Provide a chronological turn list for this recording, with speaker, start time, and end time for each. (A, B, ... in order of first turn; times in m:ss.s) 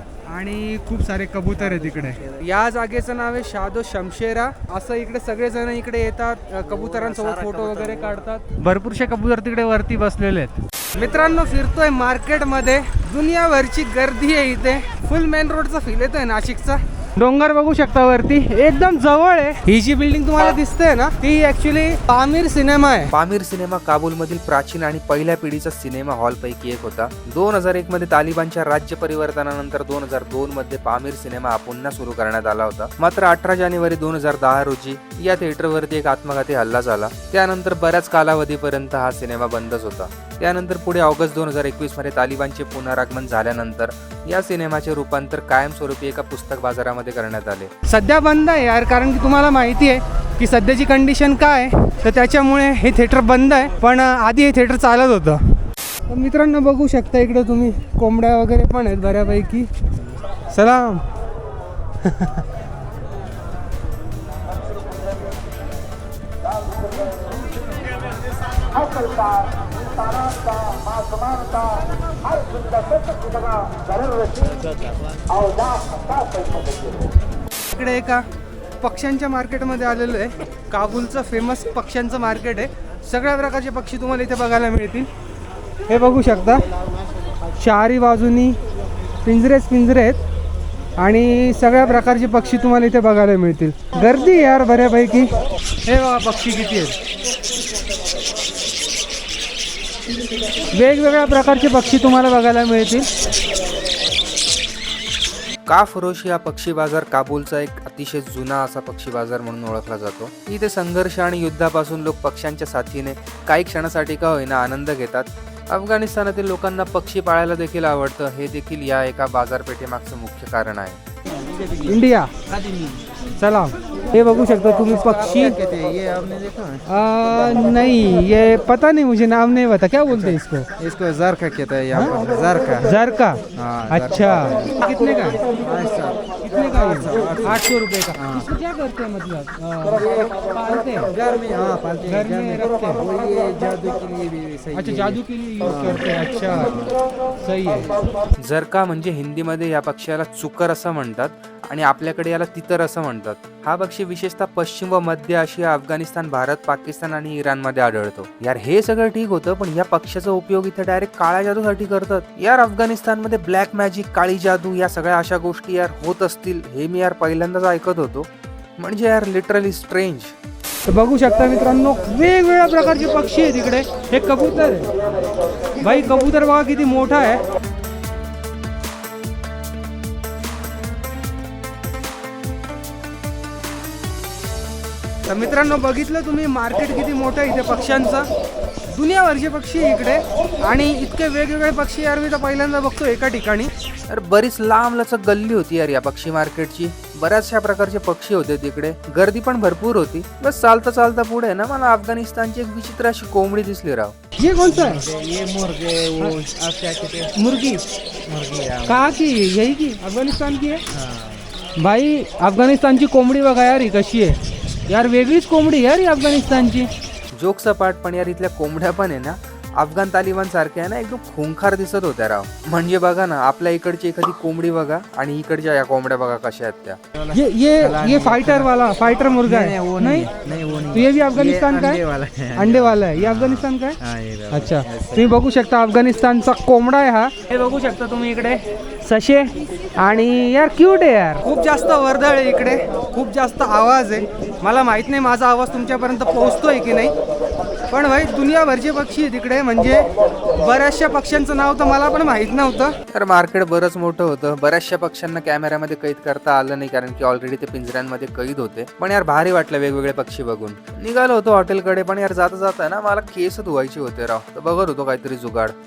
0:00.3-0:23.1 A
0:01.6-0:02.4 B
0:06.7-0:08.1 B
0:23.1-0:47.7 C
0:47.8-0:55.5 A
0:56.1-0:59.7 A
1:00.5-1:01.1 A
1:02.0-1:02.4 A
1:17.7-1:18.3 A
1:18.8-1:25.1 A
1:25.9-1:26.7 A
1:27.6-1:28.6 A
1:29.2-1:30.2 A
1:31.0-1:35.3 A
1:35.8-1:37.0 A
1:40.7-1:43.1 A
1:45.6-2:01.0 C
2:01.3-2:03.0 B
2:01.8-2:02.3 A
2:03.4-2:05.6 A
2:05.0-2:06.8 B
2:06.9-2:10.7 A
2:10.1-2:12.9 B
2:12.8-2:15.4 A
2:13.5-2:14.7 B
2:15.6-2:17.6 B
2:16.4-2:21.1 A
2:18.1-2:18.5 B
2:21.1-2:26.9 B
2:22.0-2:23.0 A
2:24.7-2:26.8 A
2:27.4-2:27.9 A
2:28.4-2:50.3 C
2:50.8-2:54.9 A
2:55.8-2:57.4 A
3:05.3-3:08.3 A
3:08.9-3:13.7 A
3:14.1-3:24.1 C
3:24.4-3:25.0 A
3:24.6-3:27.3 B
3:27.4-3:27.8 A
3:28.2-3:29.1 B
3:28.8-3:30.8 A
3:30.9-3:31.5 B
3:31.8-3:36.9 A
3:37.3-3:47.0 C
3:47.1-3:48.7 B
3:47.3-3:50.3 A
3:49.4-3:55.4 B
3:50.9-3:52.0 A
3:52.6-3:54.0 A
3:54.5-4:07.1 A
4:07.9-4:13.0 A
4:13.1-4:25.7 C